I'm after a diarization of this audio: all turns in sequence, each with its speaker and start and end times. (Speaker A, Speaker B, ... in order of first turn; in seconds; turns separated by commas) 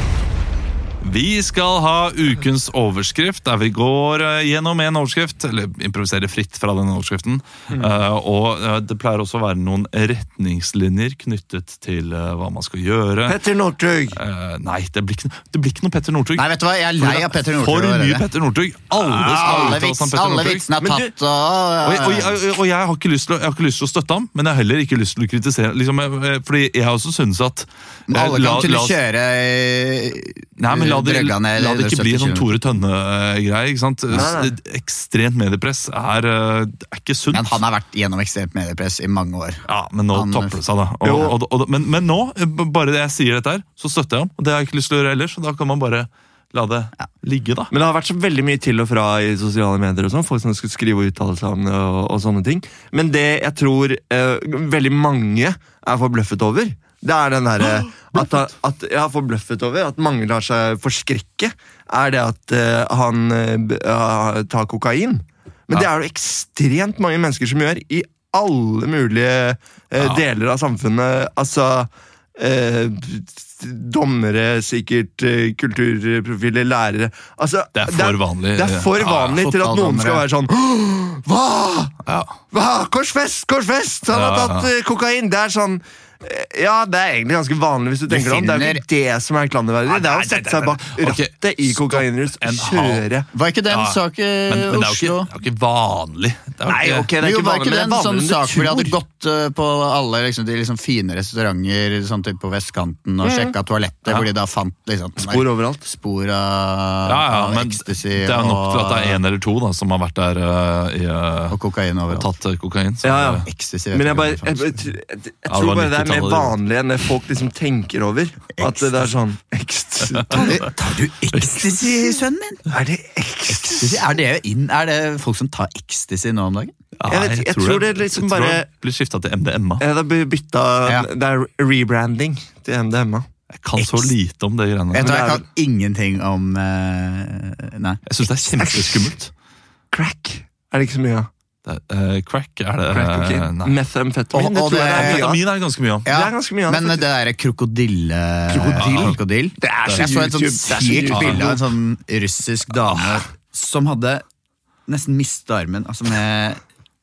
Speaker A: 1.0-13.3, Speaker B: 13.2-14.2, Speaker A: 14.2-16.5, Speaker C: 16.4-18.3, Speaker A: 17.0-20.6, Speaker C: 18.9-22.3, Speaker B: 20.8-21.1, Speaker A: 21.8-29.0, Speaker C: 28.1-32.5, Speaker A: 30.6-37.6, Speaker B: 34.1-34.5, Speaker C: 37.3-40.6, Speaker A: 39.7-47.7, Speaker B: 41.0-41.4, Speaker B: 47.7-82.0, Speaker A: 57.6-58.4, Speaker A: 70.0-70.2, Speaker A: 77.7-79.4, Speaker C: 79.2-80.2, Speaker A: 82.0-82.4, Speaker B: 82.5-93.3, Speaker A: 84.1-84.7, Speaker C: 88.1-88.8, Speaker A: 89.9-93.0, Speaker C: 93.3-95.3, Speaker A: 93.7-97.1, Speaker B: 96.7-99.0, Speaker C: 97.2-109.2, Speaker B: 103.2-103.5, Speaker B: 105.2-105.8, Speaker A: 107.0-111.6, Speaker C: 111.5-112.3, Speaker A: 112.1-113.4, Speaker B: 113.0-120.8, Speaker C: 113.4-114.8, Speaker A: 115.5-116.5, Speaker C: 118.6-119.1, Speaker A: 120.2-120.5, Speaker C: 120.3-122.6, Speaker A: 121.3-121.6, Speaker B: 122.7-124.1, Speaker C: 123.5-126.7, Speaker A: 127.0-129.8, Speaker B: 127.1-128.7, Speaker B: 129.8-133.3, Speaker A: 133.5-135.1, Speaker C: 133.8-134.1, Speaker C: 134.9-138.0, Speaker B: 135.0-135.4, Speaker A: 138.1-139.3, Speaker B: 138.5-139.1, Speaker B: 139.9-141.3, Speaker A: 141.6-143.7, Speaker B: 142.9-145.4, Speaker C: 144.3-145.3, Speaker A: 144.9-146.1, Speaker C: 146.0-154.2, Speaker B: 146.1-147.1, Speaker B: 148.5-151.6, Speaker A: 148.7-149.1, Speaker A: 151.1-151.4, Speaker A: 152.8-153.2, Speaker C: 154.9-156.6